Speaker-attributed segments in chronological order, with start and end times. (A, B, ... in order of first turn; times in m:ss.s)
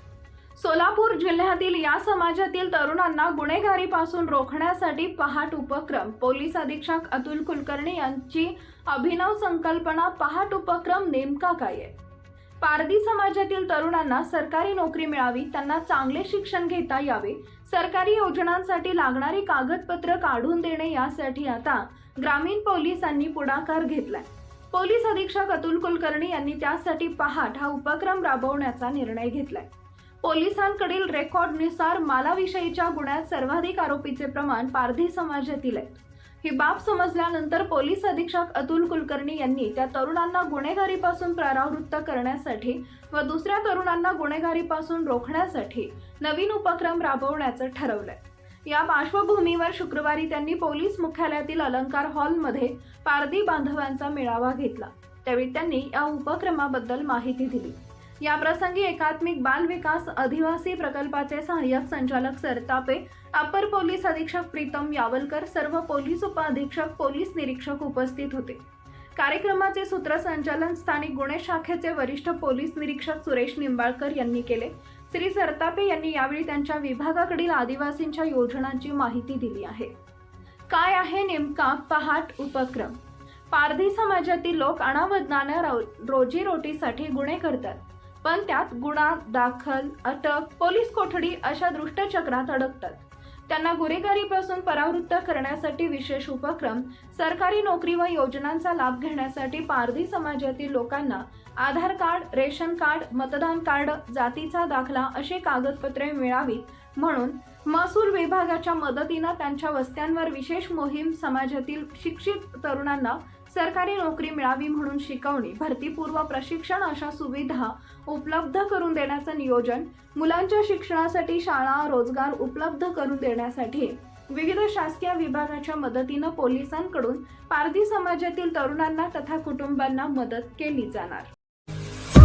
0:00.6-0:11.9 A
0:12.6-0:29.7 A
0:30.2-1:08.6 A
1:09.2-1:19.9 A
1:20.7-1:23.0 A
1:23.5-2:11.3 A